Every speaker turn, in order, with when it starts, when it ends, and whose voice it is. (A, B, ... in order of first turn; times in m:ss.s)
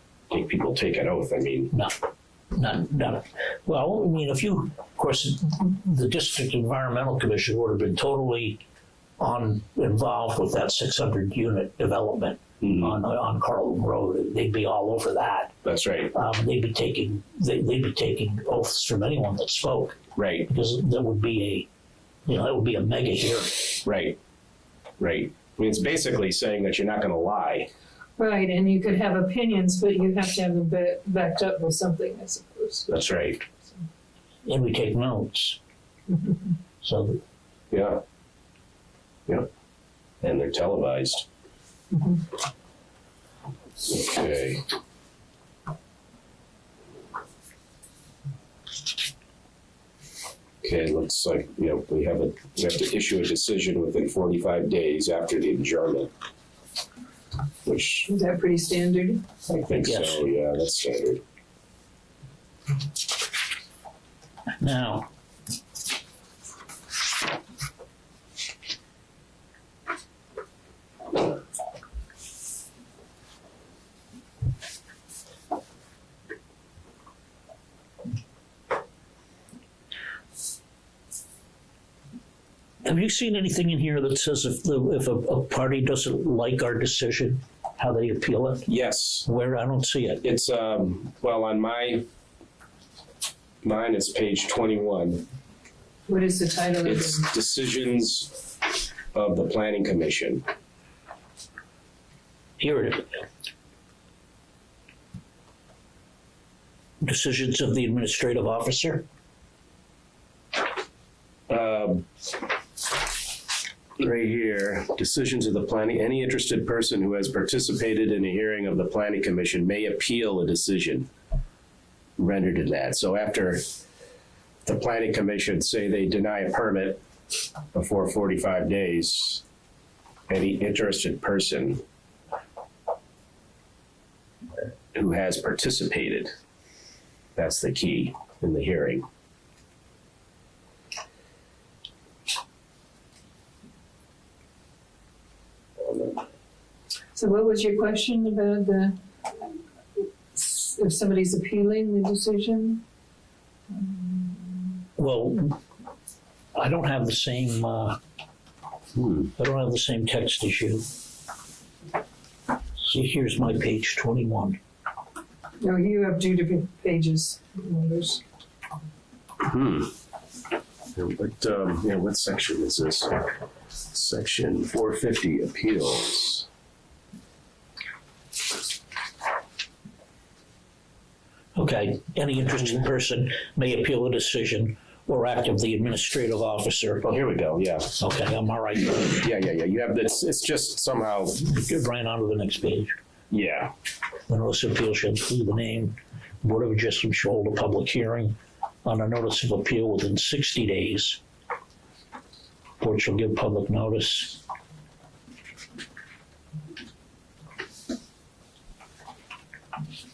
0:00.3-0:01.7 A
0:02.6-0:08.6 B
0:09.2-0:15.5 B
0:12.6-0:12.9 A
0:15.6-0:16.1 A
0:16.1-0:21.7 B
0:20.2-0:20.5 A
0:22.3-0:23.8 B
0:23.8-0:24.2 A
0:25.0-0:27.7 A
0:28.2-0:32.9 C
0:32.9-0:33.4 A
0:34.4-0:35.6 B
0:36.8-0:37.2 B
0:37.7-0:38.0 A
0:40.2-0:41.3 A
0:41.9-0:42.2 C
0:43.8-0:44.6 A
0:50.6-0:56.1 A
0:57.6-0:58.1 A
0:58.1-0:59.2 C
0:59.5-1:01.2 A
0:59.8-1:00.2 B
1:04.6-1:05.1 B
1:22.8-1:28.7 B
1:28.7-1:29.3 A
1:29.3-1:30.2 B
1:30.2-1:32.0 A
1:33.6-1:35.2 A
1:36.1-1:37.3 C
1:36.8-1:38.4 A
1:39.1-1:40.4 A
1:42.6-1:43.1 B
1:47.0-1:49.0 B
1:51.5-1:52.1 A
1:54.0-2:01.1 A
2:02.2-2:03.6 A
2:04.6-2:07.0 A
2:07.7-2:09.4 A
2:10.3-2:11.8 A
2:14.9-2:16.3 A
2:17.4-2:19.0 A
2:25.8-2:26.2 A
2:27.2-2:32.8 C
2:33.7-2:34.8 C
2:35.0-2:35.6 B
2:36.6-2:38.0 B
2:39.0-2:39.3 A
2:39.4-2:40.8 B
2:42.8-2:44.6 B
2:45.6-2:48.2 C
2:49.4-2:49.9 A
2:51.0-2:53.2 A
2:53.9-2:56.5 A
3:01.6-3:07.1 B
3:07.1-3:08.0 A
3:08.0-3:09.2 B
3:09.0-3:11.4 A
3:11.4-3:12.9 B
3:13.3-3:13.7 A
3:14.3-3:21.2 B
3:22.8-3:24.4 B